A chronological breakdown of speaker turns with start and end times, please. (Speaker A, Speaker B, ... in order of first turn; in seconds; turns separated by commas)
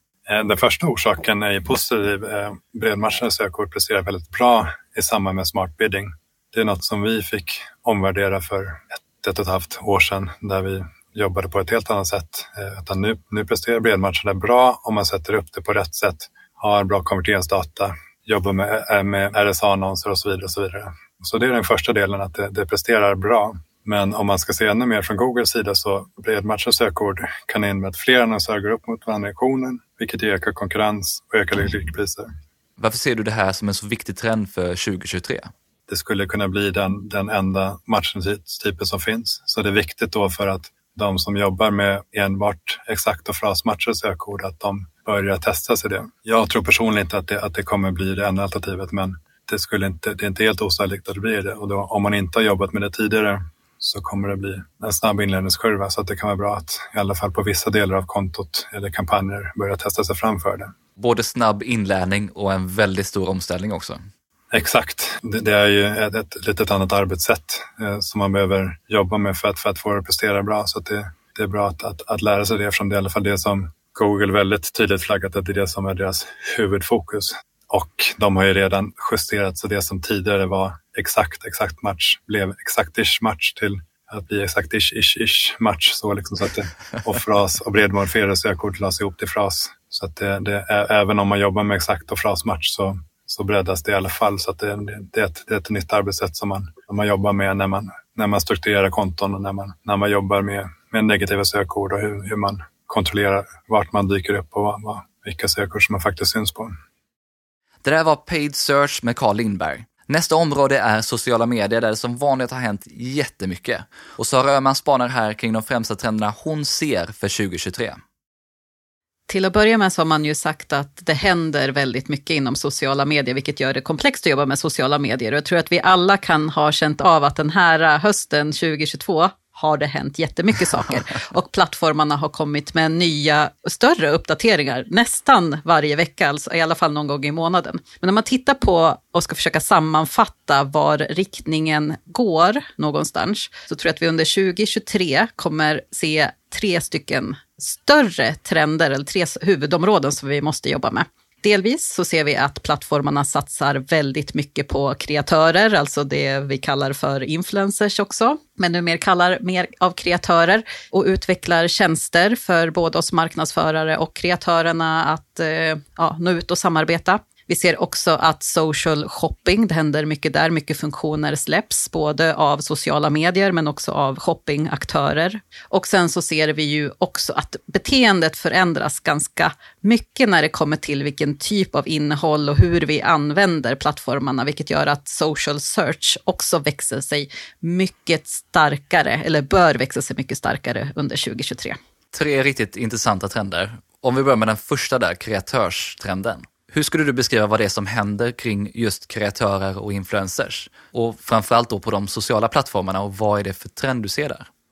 Speaker A: 0.3-32.3, Speaker B: 32.8-35.5, Speaker A: 35.9-60.7, Speaker B: 61.0-64.0, Speaker A: 64.5-106.8, Speaker B: 107.8-118.0, Speaker C: 119.3-191.8, Speaker B: 192.1-204.5